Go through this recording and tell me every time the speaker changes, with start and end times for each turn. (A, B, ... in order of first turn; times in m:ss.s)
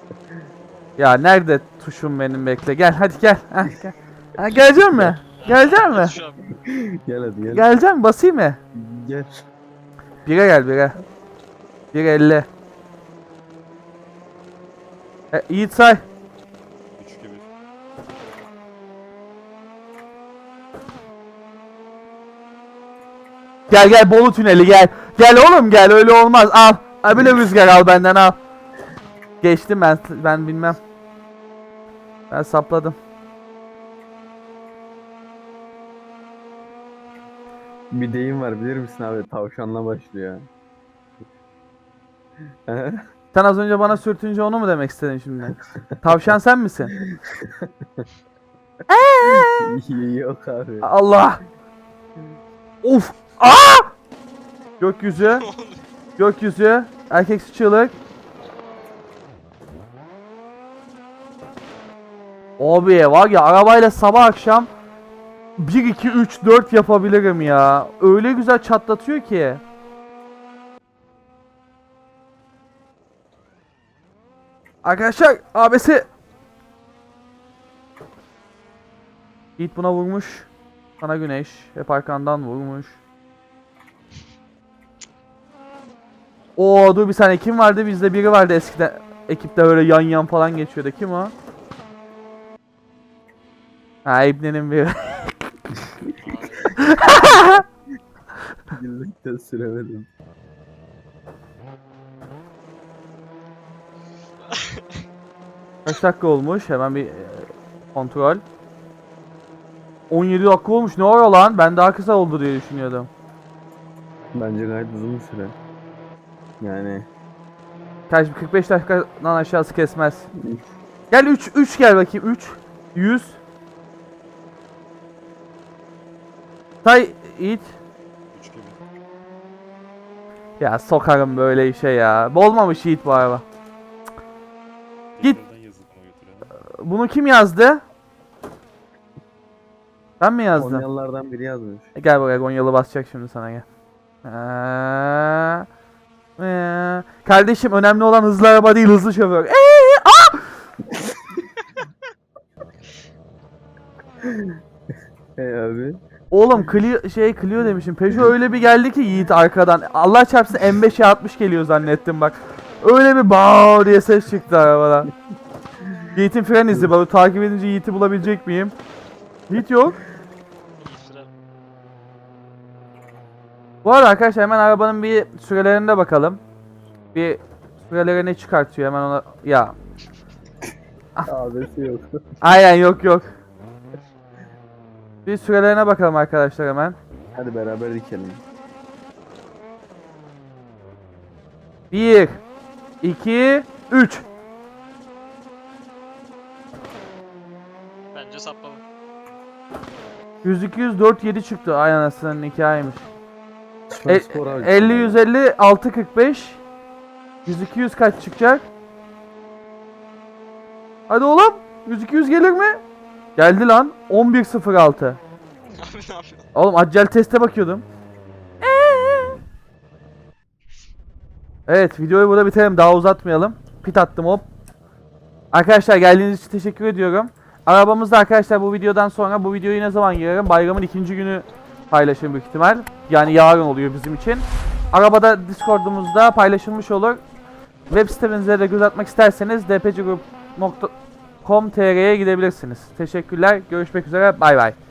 0:01.0-0:06.1 A
0:05.4-0:06.4 B
0:06.5-0:07.7 C
0:07.4-0:08.6 A
0:08.7-0:09.4 C
0:10.2-0:11.0 A
0:11.9-0:12.5 A
0:15.3-0:16.0 A
0:17.0-0:17.5 D
0:23.7-0:28.4 A
0:29.4-0:30.8 A
0:32.3-0:33.0 A
0:37.9-0:40.4 C
0:42.7-0:43.0 C
0:43.3-0:46.9 A
0:47.0-0:47.5 C
0:48.9-0:49.7 A
0:49.2-0:50.9 C
0:50.8-0:51.4 A
0:52.8-0:53.9 A
0:54.8-0:55.4 A
0:55.2-0:55.8 B
0:56.2-0:57.9 A
1:02.6-1:04.7 A
1:05.6-1:09.6 A
1:14.8-1:16.1 A
1:19.6-1:20.5 A
1:21.0-1:23.0 A
1:26.6-1:31.3 A
1:34.0-1:35.1 A
1:36.2-1:37.2 B
1:36.8-1:37.6 A
1:37.1-1:37.6 C
1:38.7-1:40.1 C
1:44.5-1:45.0 B
1:45.8-1:48.4 A
1:50.1-1:53.1 A
1:54.3-1:55.5 C
1:56.6-1:57.1 C
1:58.1-2:00.3 A
2:01.1-2:03.4 A
2:06.8-2:07.7 A
2:08.3-2:08.8 D
2:10.6-2:13.4 A
2:15.1-2:16.5 D
2:16.7-2:17.8 A
2:20.2-2:20.8 A
2:20.5-2:21.9 C
2:22.0-2:23.6 A
2:24.2-2:25.6 A
2:26.4-2:30.5 A
2:34.2-2:34.5 C
2:35.4-2:36.0 C
2:36.3-2:45.1 A
2:46.1-2:48.7 A
2:49.5-2:50.0 A
2:50.8-2:51.3 B
2:53.8-2:56.4 A
2:57.1-2:59.8 A
3:01.2-3:02.1 C
3:02.4-3:03.3 A
3:05.2-3:07.0 A
3:07.3-3:08.4 C
3:11.9-3:12.4 A
3:13.0-3:14.2 A
3:18.1-3:18.8 B
3:20.4-3:23.0 A
3:23.9-3:25.2 C
3:24.1-3:26.6 A
3:27.4-3:28.6 A
3:31.1-3:32.8 A
3:33.4-3:35.2 A
3:35.7-3:36.4 B
3:36.5-3:37.8 A
3:38.6-3:39.4 A
3:41.7-3:44.4 A
3:45.5-3:57.2 A
3:57.9-4:00.9 A
4:01.4-4:04.8 A